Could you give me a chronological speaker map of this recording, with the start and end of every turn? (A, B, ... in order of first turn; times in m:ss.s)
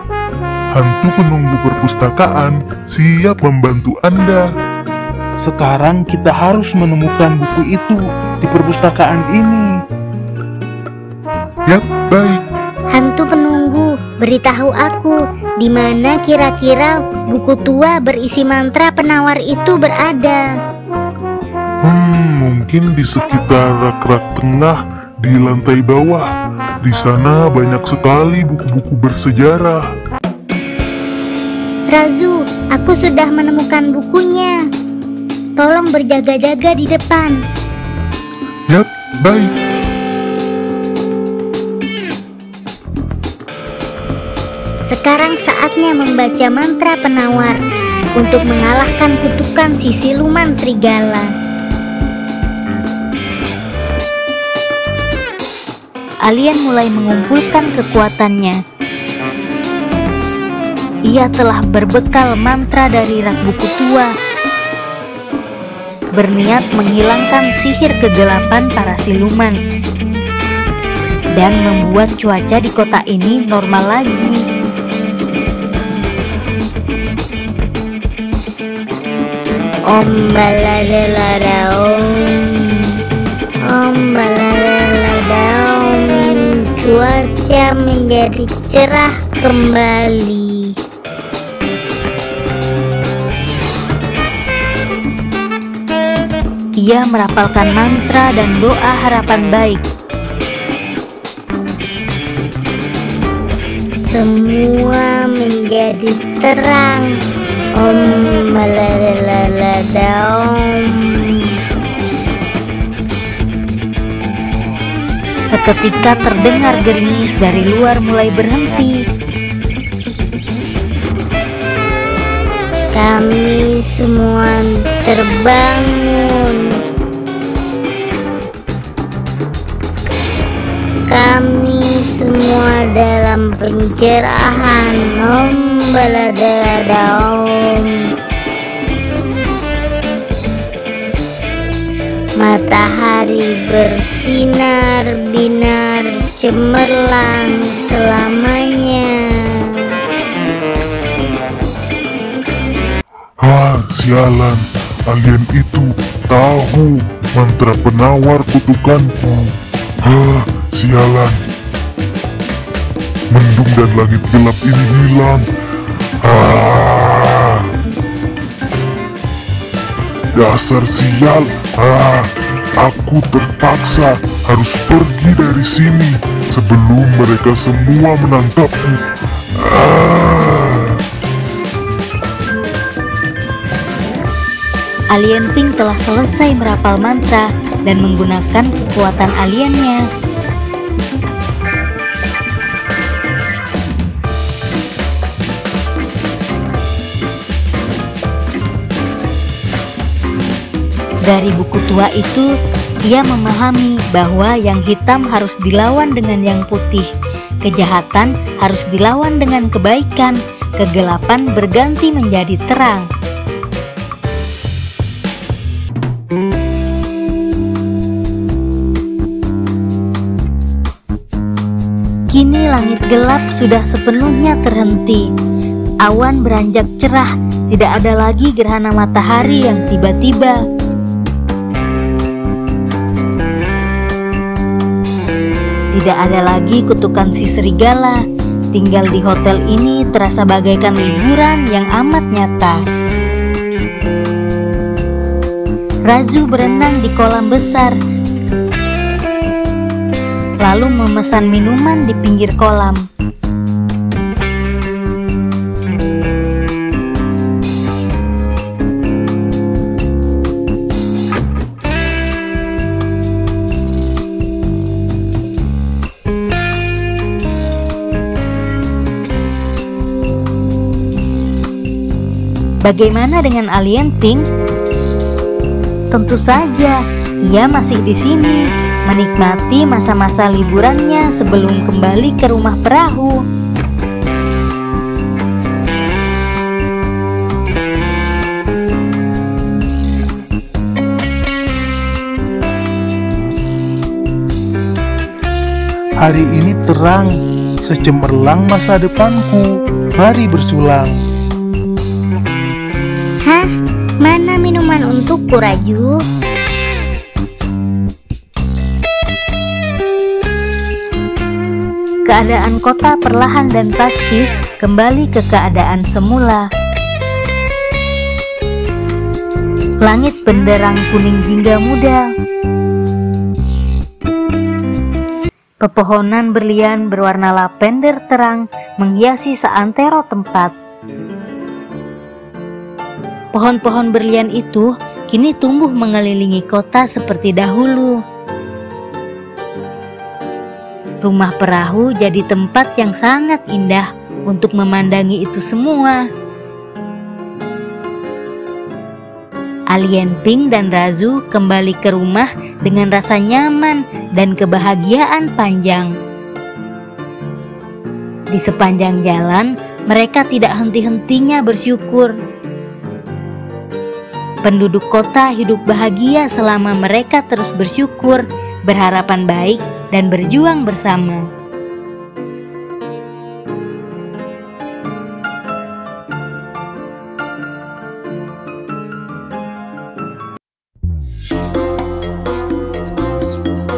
0:00.7-0:04.4 A
0:05.4-0:09.7 B
0:11.7-0:12.4 A
0:12.9-0:20.4 C
0:21.8-0:26.3 A
0:26.8-0:29.8 A
0:31.9-0:34.6 C
0:35.6-0:37.4 C
0:38.7-0:39.5 A
0:44.9-0:47.6 C
0:48.2-0:51.3 C
0:56.2-0:58.6 D
1:01.0-1:04.1 D
1:06.2-1:09.6 D
1:11.4-1:14.4 D
1:19.9-1:22.9 C
1:23.6-1:30.7 C
1:36.8-1:39.8 D
1:44.0-1:47.1 C
1:47.8-1:51.5 C
1:55.4-1:59.0 D
2:02.9-2:06.8 C
2:11.1-2:18.0 C
2:22.4-2:29.9 C
2:33.4-2:41.4 A
2:43.3-2:45.4 A
2:46.2-2:47.7 A
2:50.4-2:59.0 A
2:59.6-3:01.0 A
3:05.1-3:10.0 D
3:21.2-3:22.5 D
3:23.1-3:27.1 D
3:27.6-3:33.1 D
3:42.3-3:45.2 D
3:46.0-3:50.6 D
3:55.9-3:58.2 D
3:58.7-4:02.8 D
4:06.1-4:08.0 D
4:10.6-4:13.0 D
4:32.8-4:34.4 D
4:36.1-4:43.4 D
4:56.2-4:57.3 B
4:57.8-5:01.2 B
5:04.2-5:06.2 C
5:12.3-5:16.7 D
5:20.0-5:22.3 D
5:25.8-5:30.7 D
5:33.5-5:38.2 D
5:41.2-5:46.2 D
5:49.9-5:56.1 D
5:58.5-6:02.3 D
6:04.6-6:11.5 D